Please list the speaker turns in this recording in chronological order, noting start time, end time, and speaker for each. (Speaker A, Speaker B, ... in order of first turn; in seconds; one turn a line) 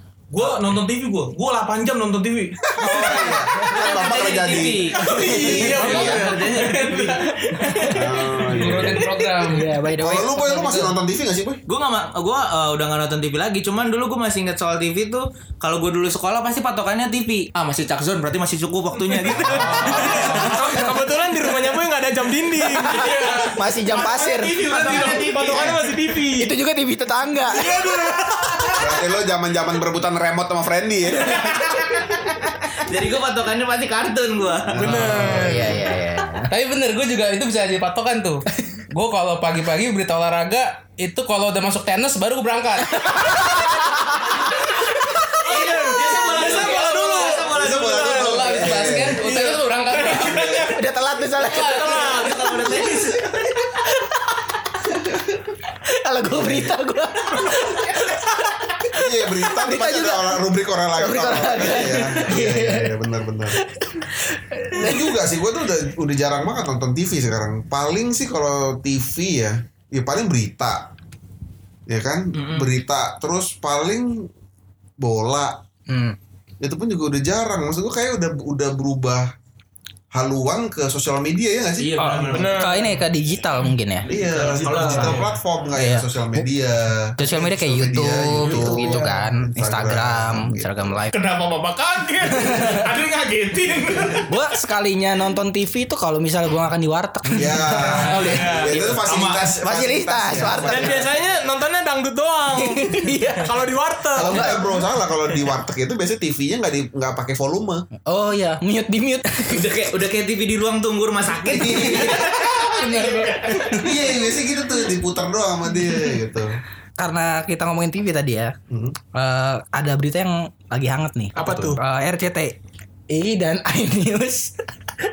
Speaker A: 0.3-3.1
Speaker B: 2.8-6.3
Speaker C: 3.0-4.0
Speaker D: 3.0-7.2
Speaker E: 5.0-6.8
Speaker F: 5.8-6.2
Speaker A: 6.9-7.3
Speaker C: 7.6-8.3
Speaker B: 7.9-9.1
Speaker F: 8.5-9.7
Speaker C: 9.5-11.0
Speaker B: 9.8-11.6
Speaker D: 11.7-20.7
Speaker A: 19.3-20.3
Speaker E: 19.6-26.5
Speaker C: 22.7-25.3
Speaker A: 24.1-25.8
Speaker C: 26.4-27.7
Speaker E: 27.5-28.9
Speaker B: 28.8-31.4
Speaker D: 32.8-35.2
Speaker B: 34.7-35.8
Speaker E: 34.8-35.7
Speaker C: 35.2-36.5
Speaker F: 36.5-43.5
Speaker C: 43.1-45.3
Speaker D: 44.5-48.5
Speaker E: 45.4-47.5
Speaker F: 46.4-50.8
Speaker B: 47.4-49.2
Speaker E: 49.2-50.7
Speaker C: 50.7-54.1
Speaker F: 51.4-52.0
Speaker E: 51.8-52.3
Speaker D: 52.0-53.2
Speaker C: 56.0-58.5
Speaker B: 56.3-56.7
Speaker B: 58.9-63.6
Speaker C: 59.5-60.4
Speaker C: 61.0-63.0
Speaker C: 63.6-65.1
Speaker B: 64.7-70.9
Speaker B: 71.9-74.3
Speaker D: 72.3-72.8
Speaker B: 75.0-75.6
Speaker C: 75.9-76.2
Speaker B: 76.6-79.3
Speaker B: 80.1-81.9
Speaker D: 81.8-82.9
Speaker C: 82.0-84.1
Speaker E: 82.3-82.9
Speaker B: 84.1-90.9
Speaker D: 84.2-85.3
Speaker E: 85.0-85.2
Speaker C: 85.8-86.5
Speaker C: 87.2-91.1
Speaker E: 88.5-89.1
Speaker A: 91.1-94.3
Speaker C: 94.3-99.0
Speaker B: 97.4-101.0
Speaker A: 98.2-99.5
Speaker C: 99.6-101.1
Speaker E: 100.6-104.6
Speaker C: 102.5-103.6
Speaker C: 104.2-104.7
Speaker B: 104.2-107.9
Speaker C: 108.1-109.7
Speaker D: 109.5-112.2
Speaker B: 111.4-112.7
Speaker C: 111.6-113.8
Speaker A: 113.1-113.7
Speaker B: 113.7-116.5
Speaker C: 117.0-118.5
Speaker B: 118.7-119.0
Speaker C: 119.1-122.6
Speaker E: 121.3-121.8
Speaker B: 121.4-121.8
Speaker C: 123.1-124.5